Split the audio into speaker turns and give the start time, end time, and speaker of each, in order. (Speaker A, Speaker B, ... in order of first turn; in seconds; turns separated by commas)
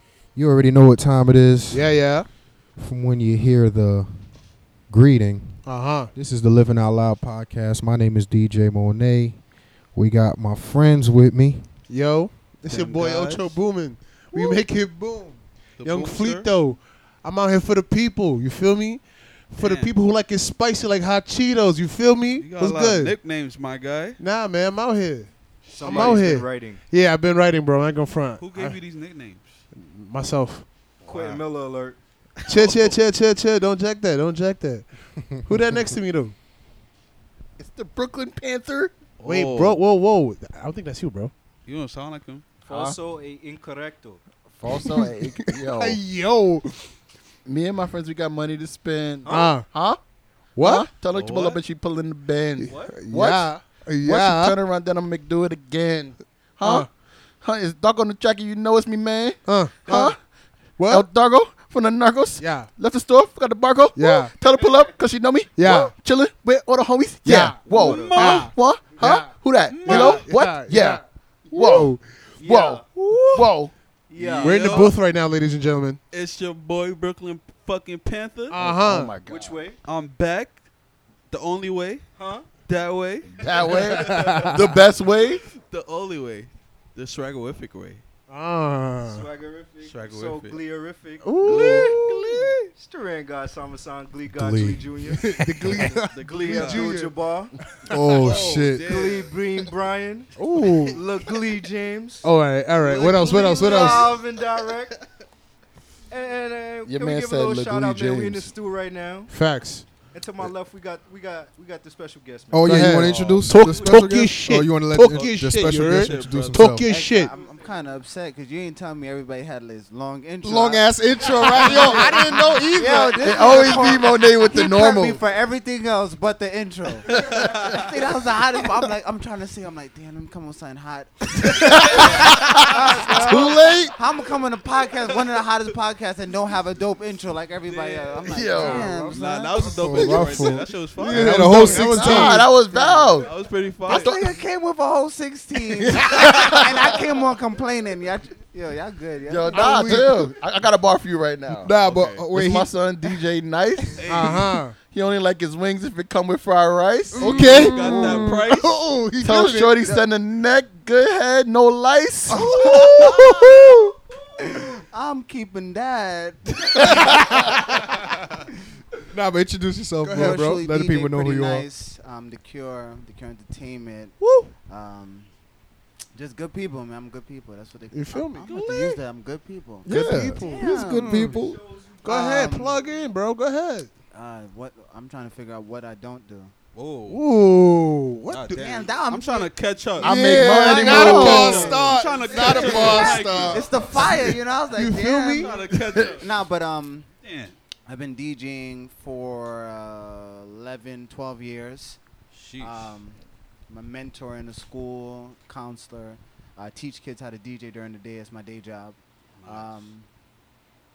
Speaker A: 0.3-2.0, Speaker B: 1.7-2.3, Speaker A: 2.8-4.3, Speaker A: 4.9-9.4, Speaker B: 5.6-6.1, Speaker A: 9.9-11.7, Speaker B: 11.9-23.1, Speaker C: 12.7-13.6, Speaker C: 15.8-16.5, Speaker C: 19.6-19.9, Speaker C: 22.4-24.2, Speaker B: 24.2-25.3, Speaker C: 25.6-26.3, Speaker D: 25.7-26.8, Speaker B: 25.8-28.8, Speaker C: 28.4-29.6, Speaker B: 29.7-30.6, Speaker D: 31.0-32.0, Speaker C: 31.1-31.4, Speaker B: 32.5-36.3, Speaker E: 37.6-38.9, Speaker C: 39.2-39.8, Speaker B: 39.2-41.3, Speaker C: 41.6-42.5, Speaker D: 42.6-44.2, Speaker E: 44.5-46.0, Speaker B: 44.7-46.9, Speaker E: 47.5-50.0, Speaker D: 49.3-49.5, Speaker B: 49.3-49.7, Speaker B: 50.5-50.9, Speaker E: 50.6-56.9, Speaker C: 51.1-51.6, Speaker B: 52.6-54.6, Speaker D: 52.7-53.0, Speaker B: 56.6-56.9, Speaker E: 57.4-60.2, Speaker B: 59.5-60.1, Speaker B: 60.8-61.1, Speaker E: 60.9-71.0, Speaker B: 62.4-62.7, Speaker B: 63.9-64.3, Speaker B: 65.6-65.9, Speaker B: 67.2-69.3, Speaker C: 67.6-68.5, Speaker D: 67.7-68.3, Speaker C: 69.7-70.2, Speaker B: 69.8-72.2, Speaker E: 71.5-73.7, Speaker D: 72.4-72.8, Speaker B: 73.2-73.4, Speaker D: 74.1-74.9, Speaker C: 74.2-75.0, Speaker B: 74.4-76.0, Speaker C: 76.1-78.6, Speaker B: 78.5-79.1, Speaker E: 78.6-79.6, Speaker D: 79.2-79.8, Speaker C: 79.8-80.6, Speaker C: 81.3-84.8, Speaker D: 82.2-82.5, Speaker E: 83.3-85.4, Speaker B: 83.9-84.5, Speaker D: 84.0-84.5, Speaker C: 85.5-88.0, Speaker B: 88.3-89.3, Speaker D: 89.1-97.6, Speaker C: 89.8-90.6, Speaker B: 91.2-92.7, Speaker C: 91.4-91.9, Speaker A: 94.3-95.9, Speaker B: 95.1-98.3, Speaker C: 96.0-96.9, Speaker A: 97.9-98.9, Speaker C: 98.2-99.3, Speaker D: 98.8-104.9, Speaker B: 100.3-101.0, Speaker B: 102.2-104.2, Speaker C: 103.5-104.1, Speaker D: 106.1-109.3, Speaker E: 106.8-108.5, Speaker B: 109.3-109.9, Speaker D: 110.1-114.2, Speaker A: 112.5-116.8, Speaker B: 112.6-117.3, Speaker E: 112.9-113.5, Speaker C: 115.1-116.7, Speaker F: 116.8-139.8, Speaker D: 117.1-117.7, Speaker A: 120.4-123.5, Speaker E: 123.2-125.2, Speaker C: 127.2-127.9, Speaker E: 127.2-127.7, Speaker E: 131.5-133.7, Speaker C: 132.0-132.8, Speaker A: 133.2-133.9, Speaker C: 137.7-138.4, Speaker E: 138.3-139.1, Speaker B: 138.6-139.2, Speaker C: 139.1-141.4, Speaker A: 139.8-142.5, Speaker B: 139.9-142.5, Speaker E: 141.5-143.3, Speaker F: 142.7-143.1, Speaker C: 143.2-144.1, Speaker E: 143.9-144.3, Speaker F: 143.9-149.9, Speaker E: 145.8-146.9, Speaker E: 149.3-151.7, Speaker A: 149.5-150.3, Speaker A: 151.5-152.7, Speaker C: 151.8-152.2, Speaker E: 152.3-154.0, Speaker C: 154.0-154.5, Speaker B: 154.1-154.8, Speaker E: 154.8-157.5, Speaker A: 157.2-159.4, Speaker C: 157.2-158.8, Speaker B: 157.2-160.0, Speaker E: 159.2-162.7, Speaker F: 162.3-163.8, Speaker B: 162.4-163.0, Speaker A: 162.8-163.7, Speaker F: 164.3-167.8, Speaker E: 166.8-167.4, Speaker A: 169.1-171.7, Speaker B: 170.0-170.6, Speaker F: 170.1-175.3, Speaker B: 174.2-174.5, Speaker F: 176.1-181.1, Speaker B: 177.9-179.0, Speaker B: 179.8-181.4, Speaker A: 179.8-181.6, Speaker D: 180.3-183.1, Speaker B: 182.0-183.9, Speaker F: 182.0-182.7, Speaker F: 184.1-186.5, Speaker C: 186.7-187.2, Speaker B: 187.1-188.7, Speaker C: 188.3-190.2, Speaker F: 188.5-189.5, Speaker E: 190.0-191.7, Speaker A: 190.0-193.7, Speaker B: 190.3-191.8, Speaker F: 190.9-191.6, Speaker C: 190.9-194.0, Speaker D: 191.9-193.0, Speaker F: 192.3-197.1, Speaker B: 194.7-195.5, Speaker C: 195.3-196.3, Speaker E: 195.7-196.2, Speaker C: 197.2-197.6, Speaker F: 197.8-202.0, Speaker C: 202.3-202.9, Speaker F: 202.6-210.1, Speaker C: 209.4-209.8